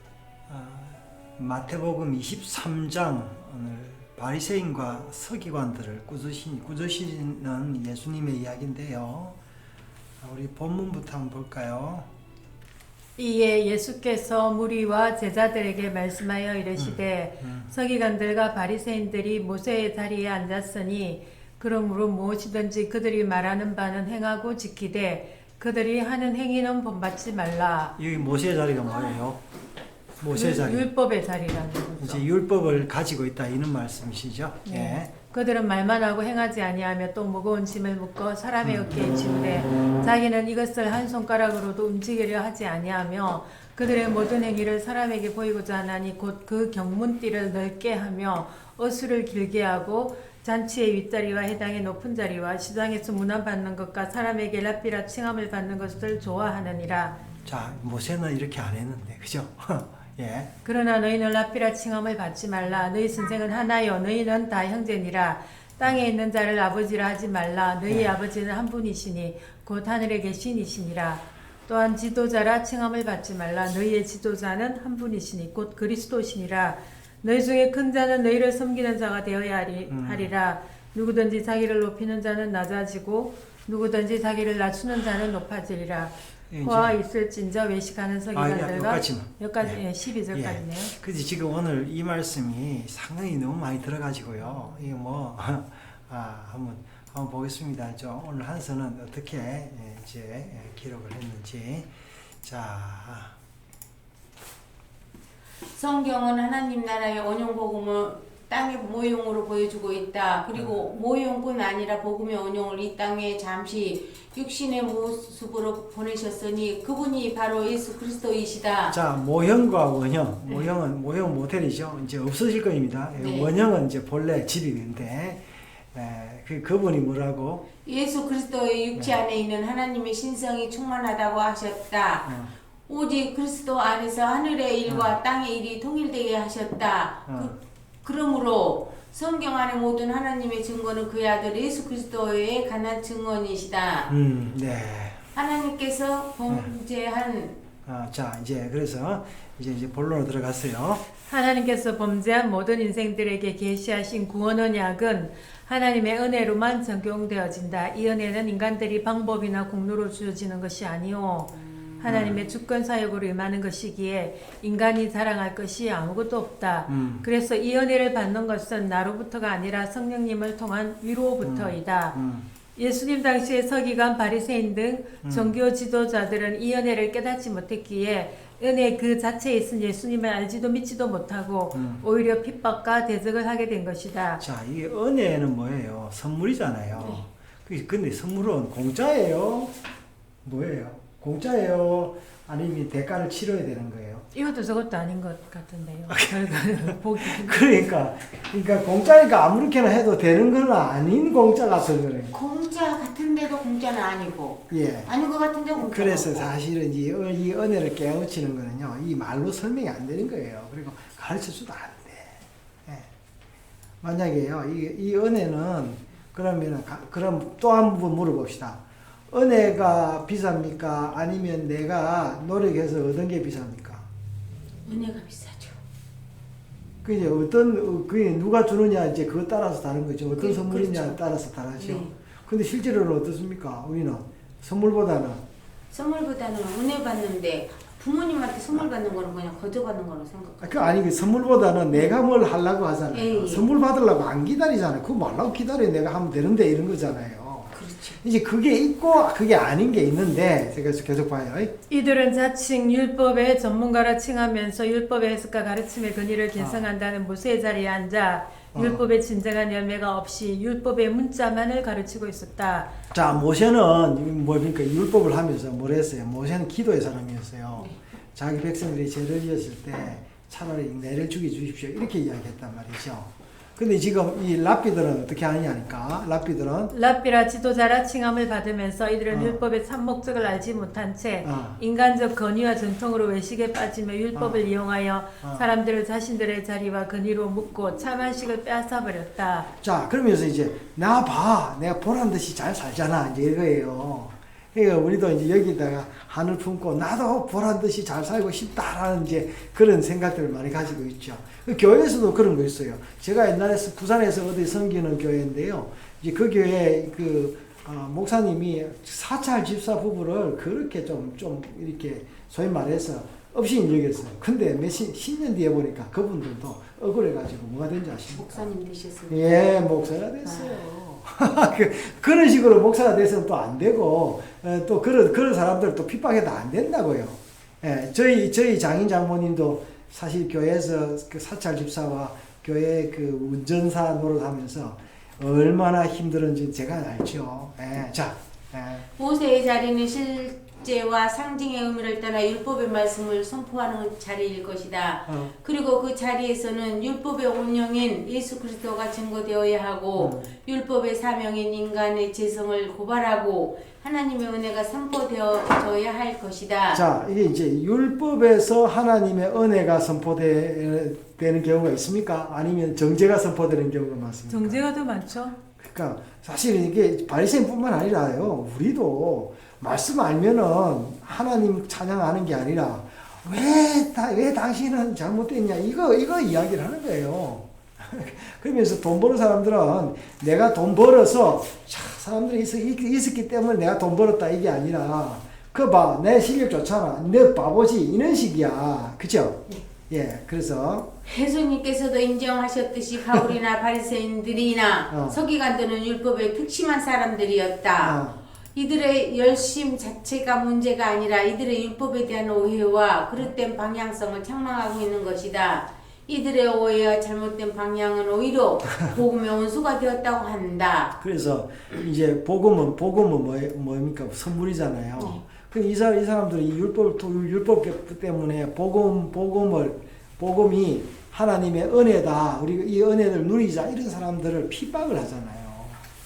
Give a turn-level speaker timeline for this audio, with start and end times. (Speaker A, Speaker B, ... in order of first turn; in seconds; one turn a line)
Speaker A: 0.5-9.4
Speaker A: 10.2-12.1
Speaker B: 13.2-27.9
Speaker A: 16.8-17.7
Speaker A: 28.0-29.4
Speaker A: 30.2-30.9
Speaker B: 30.3-32.3
Speaker A: 32.0-35.1
Speaker B: 34.6-57.1
Speaker A: 38.6-39.0
Speaker A: 57.4-60.5
Speaker B: 60.6-90.9
Speaker A: 67.9-68.2
Speaker A: 79.9-80.3
Speaker A: 86.5-87.0
Speaker A: 88.3-89.8
Speaker A: 90.3-103.3
Speaker C: 105.7-119.0
Speaker A: 118.9-127.6
Speaker C: 123.2-123.5
Speaker C: 127.8-132.3
Speaker A: 132.2-132.5
Speaker C: 132.9-144.1
Speaker A: 134.9-135.2
Speaker A: 137.3-137.5
Speaker A: 144.1-145.2
Speaker C: 145.3-147.6
Speaker A: 147.8-151.0
Speaker B: 151.3-172.2
Speaker A: 162.0-162.4
Speaker A: 166.9-167.2
Speaker A: 171.4-172.5
Speaker B: 172.8-184.4
Speaker A: 175.2-175.5
Speaker A: 181.7-182.0
Speaker A: 184.4-189.7
Speaker A: 190.4-194.3
Speaker B: 194.3-197.7
Speaker A: 196.1-202.3
Speaker C: 202.3-206.5
Speaker A: 204.7-205.1
Speaker A: 205.8-213.1
Speaker A: 214.0-224.1
Speaker C: 224.8-225.8
Speaker A: 227.0-235.4
Speaker C: 230.3-231.2
Speaker C: 231.8-232.1
Speaker C: 235.9-240.9
Speaker A: 240.6-251.7
Speaker C: 243.1-243.7
Speaker C: 247.7-248.2
Speaker B: 251.9-262.9
Speaker A: 256.6-256.9
Speaker A: 258.7-259.0
Speaker A: 263.1-276.9
Speaker B: 276.9-289.7
Speaker A: 279.3-279.6
Speaker A: 281.4-281.8
Speaker A: 284.3-284.7
Speaker A: 285.4-285.7
Speaker A: 289.8-318.7
Speaker C: 318.3-319.6
Speaker A: 319.3-339.1
Speaker C: 320.4-320.8
Speaker C: 339.2-357.0
Speaker A: 345.3-345.5
Speaker A: 350.2-350.5
Speaker A: 356.9-364.8
Speaker B: 364.5-365.6
Speaker A: 365.8-391.1
Speaker C: 391.2-398.2
Speaker A: 395.1-395.4
Speaker A: 398.0-398.4
Speaker C: 398.7-411.1
Speaker A: 411.2-426.0
Speaker C: 415.2-415.4